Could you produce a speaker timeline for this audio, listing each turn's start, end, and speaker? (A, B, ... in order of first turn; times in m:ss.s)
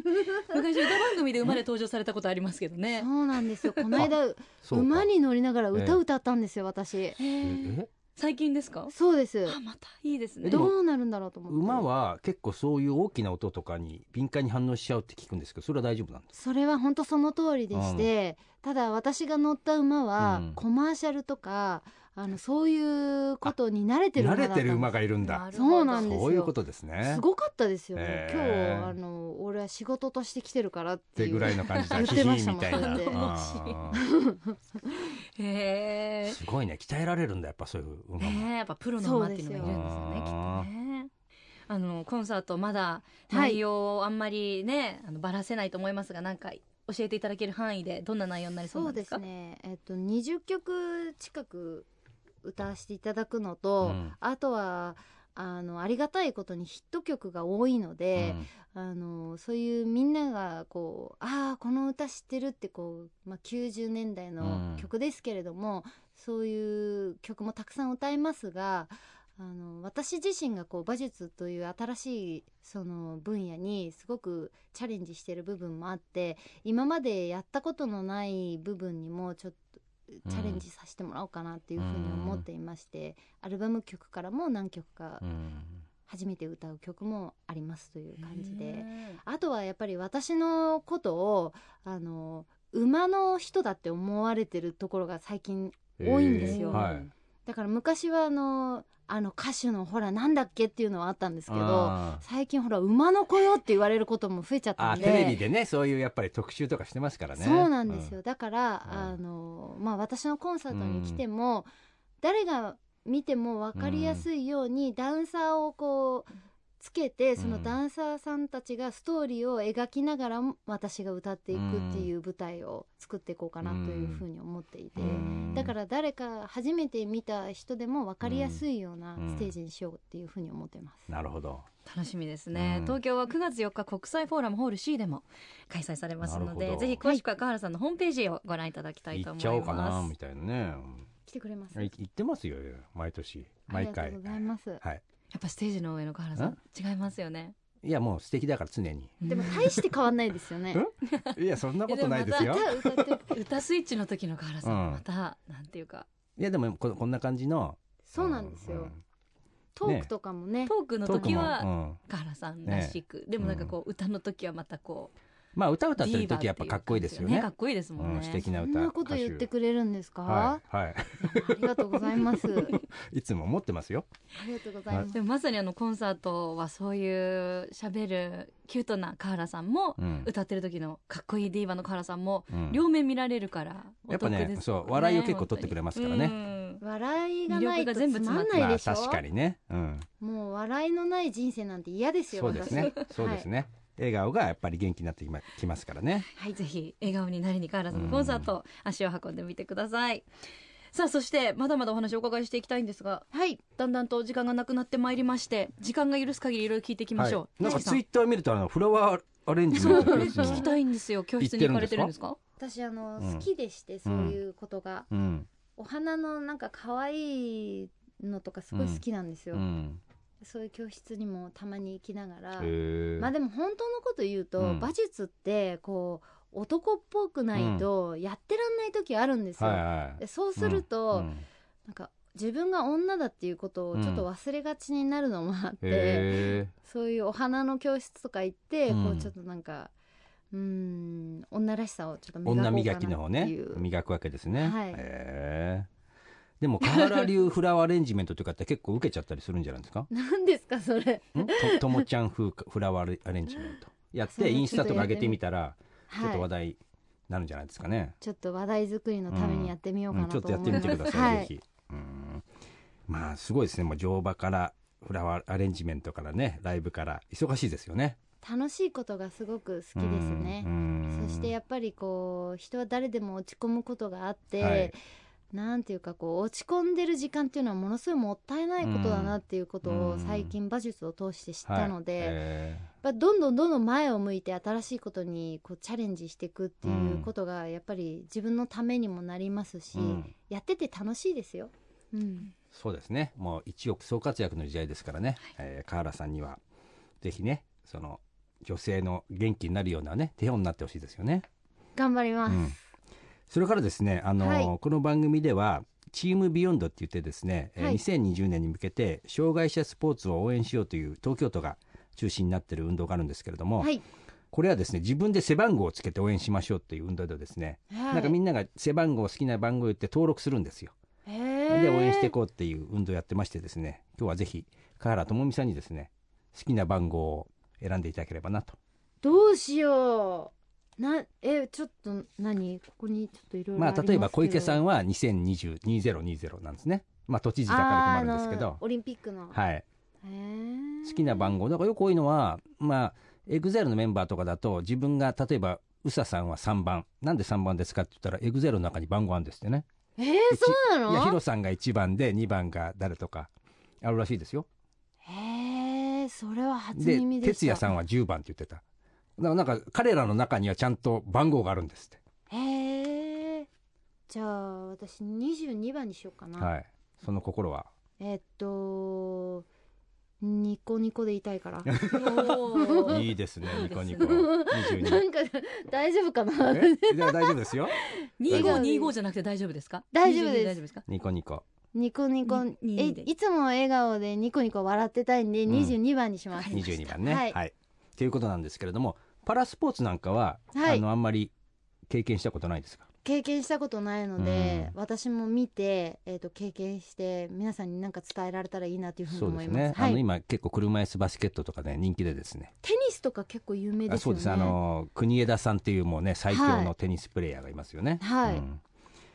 0:00.1-0:00.5 A
0:00.4-0:03.1 B
0:03.0-0:07.2 A
0:04.6-0:05.1 C
0:05.7-0:06.0 C
0:07.2-0:07.6 B
0:07.4-0:07.9 C
0:08.2-0:08.9 B
0:08.9-0:09.6 A
0:09.5-0:10.7 B
0:10.4-0:10.7 C
0:10.4-0:11.9 A
0:11.5-0:16.3 C
0:16.3-0:24.9 A
0:17.7-0:18.1 C
0:20.2-0:20.6 C
0:24.2-0:27.2 C
0:25.2-0:26.1 B
0:25.5-0:33.2 A
0:27.9-0:28.9 C
0:31.2-0:34.0 C
0:31.7-0:33.8 B
0:33.9-0:35.1 A
0:35.4-0:36.4 B
0:36.2-0:38.5 C
0:38.2-0:41.1 B
0:39.0-0:39.8 A
0:39.6-0:40.7 C
0:41.7-0:49.2 B
0:43.3-0:43.6 A
0:48.7-0:51.9 A
0:52.4-1:25.2 A
0:53.8-0:54.1 C
0:58.1-0:58.5 C
1:04.4-1:04.9 C
1:20.2-1:20.6 C
1:21.8-1:22.4 C
1:25.2-1:25.8 C
1:26.1-1:45.4 A
1:28.2-1:29.2 B
1:36.0-1:37.1 C
1:36.4-1:37.1 B
1:41.5-1:42.2 C
1:44.8-1:48.1 C
1:45.0-1:45.3 B
1:47.4-1:51.7 A
1:48.9-1:49.1 C
1:50.7-1:51.2 C
1:52.2-1:56.3 A
1:53.8-1:54.2 C
1:56.8-2:11.1 A
1:57.4-1:57.7 C
2:01.5-2:02.1 C
2:03.6-2:04.2 C
2:05.0-2:05.7 C
2:08.2-2:08.6 C
2:09.2-2:09.5 C
2:11.1-2:11.6 C
2:11.8-2:20.1 B
2:12.5-2:13.0 C
2:16.2-2:17.0 C
2:19.1-2:21.0 C
2:21.3-2:21.9 A
2:21.7-2:25.0 C
2:23.7-2:24.8 A
2:25.3-2:27.5 B
2:27.8-2:29.2 C
2:29.2-2:29.8 B
2:29.3-2:30.8 A
2:30.7-2:32.7 C
2:31.1-2:36.1 B
2:32.3-2:33.3 A
2:34.6-2:35.0 C
2:36.4-2:39.0 C
2:38.1-2:38.9 A
2:39.7-2:41.5 A
2:39.8-2:40.1 C
2:40.7-2:45.1 B
2:41.0-2:42.0 C
2:42.6-2:43.7 C
2:45.5-2:49.5 C
2:46.0-2:48.4 B
2:48.5-2:50.6 A
2:50.2-2:54.1 C
2:51.2-2:52.8 A
2:54.3-2:55.2 A
2:55.1-3:06.8 B
3:00.0-3:00.3 C
3:02.5-3:02.8 C
3:04.1-3:06.4 C
3:06.8-3:09.2 A
3:07.5-3:08.7 B
3:08.5-3:10.1 C
3:10.2-3:13.4 A
3:12.3-3:16.3 C
3:12.6-3:13.0 B
3:16.4-3:20.2 B
3:17.9-3:18.5 C
3:20.9-3:28.0 B
3:23.3-3:23.6 A
3:27.2-3:30.7 C
3:29.7-3:32.4 B
3:29.8-3:30.6 A
3:31.4-3:32.1 C
3:32.6-3:35.1 A
3:33.2-3:33.4 C
3:34.0-3:34.4 C
3:35.1-3:35.5 C
3:35.8-3:39.6 A
3:38.7-3:39.0 C
3:39.5-3:40.0 C
3:40.4-3:51.3 A
3:42.6-3:43.3 C
3:44.6-3:44.9 C
3:47.5-3:47.8 C
3:49.6-3:51.4 C
3:51.9-3:59.9 A
3:53.9-3:54.2 C
3:55.8-3:56.7 C
3:58.9-3:59.3 C
4:00.5-4:03.8 A
4:02.4-4:05.9 C
4:04.6-4:05.0 A
4:06.6-4:10.1 C
4:10.1-4:12.0 A
4:11.3-4:18.2 C
4:14.3-4:15.4 A
4:16.1-4:16.5 A
4:18.2-4:21.5 A
4:19.3-4:22.4 C
4:23.1-4:28.2 C
4:28.4-4:35.0 A
4:30.0-4:31.5 C
4:34.6-4:34.9 C
4:35.5-4:42.4 A
4:38.8-4:40.5 C
4:41.6-4:42.9 C
4:43.0-4:52.5 A
4:46.8-4:47.3 C
4:49.9-4:50.3 C
4:52.7-4:56.6 C
4:57.2-5:01.4 C
5:02.0-5:02.8 A
5:02.5-5:02.8 C
5:03.5-5:13.9 C
5:04.4-5:04.7 A
5:14.5-5:20.9 C
5:17.9-5:18.4 A
5:21.2-5:22.4 A
5:21.7-5:28.8 C
5:29.2-5:34.8 A
5:33.8-5:38.8 C
5:37.7-5:39.6 A
5:39.5-5:39.8 C
5:40.2-5:41.6 A
5:41.0-5:49.8 C
5:50.2-5:51.4 A
5:50.5-5:53.5 C
5:54.0-5:54.6 C
5:55.2-5:58.0 A
5:57.0-5:58.8 C
5:59.4-6:02.2 C
6:02.5-6:03.7 A
6:04.3-6:06.7 A
6:06.6-6:07.9 C
6:08.2-6:09.6 A
6:10.4-6:13.2 A
6:11.9-6:12.5 C
6:12.1-6:14.5 B
6:13.0-6:15.2 C
6:14.1-6:19.1 A
6:16.6-6:18.0 C
6:18.4-6:21.0 B
6:18.5-6:18.8 C
6:20.1-6:20.8 A
6:21.1-6:21.6 C
6:21.9-6:27.6 A
6:22.4-6:23.3 B
6:25.7-6:25.9 C
6:26.7-6:31.5 C
6:30.7-6:31.0 A
6:32.1-6:33.0 C
6:33.2-6:40.2 A
6:34.4-6:34.9 C
6:39.3-6:42.7 C
6:42.8-6:44.8 A
6:44.1-6:48.8 C
6:46.5-6:46.9 A
6:48.2-6:48.6 A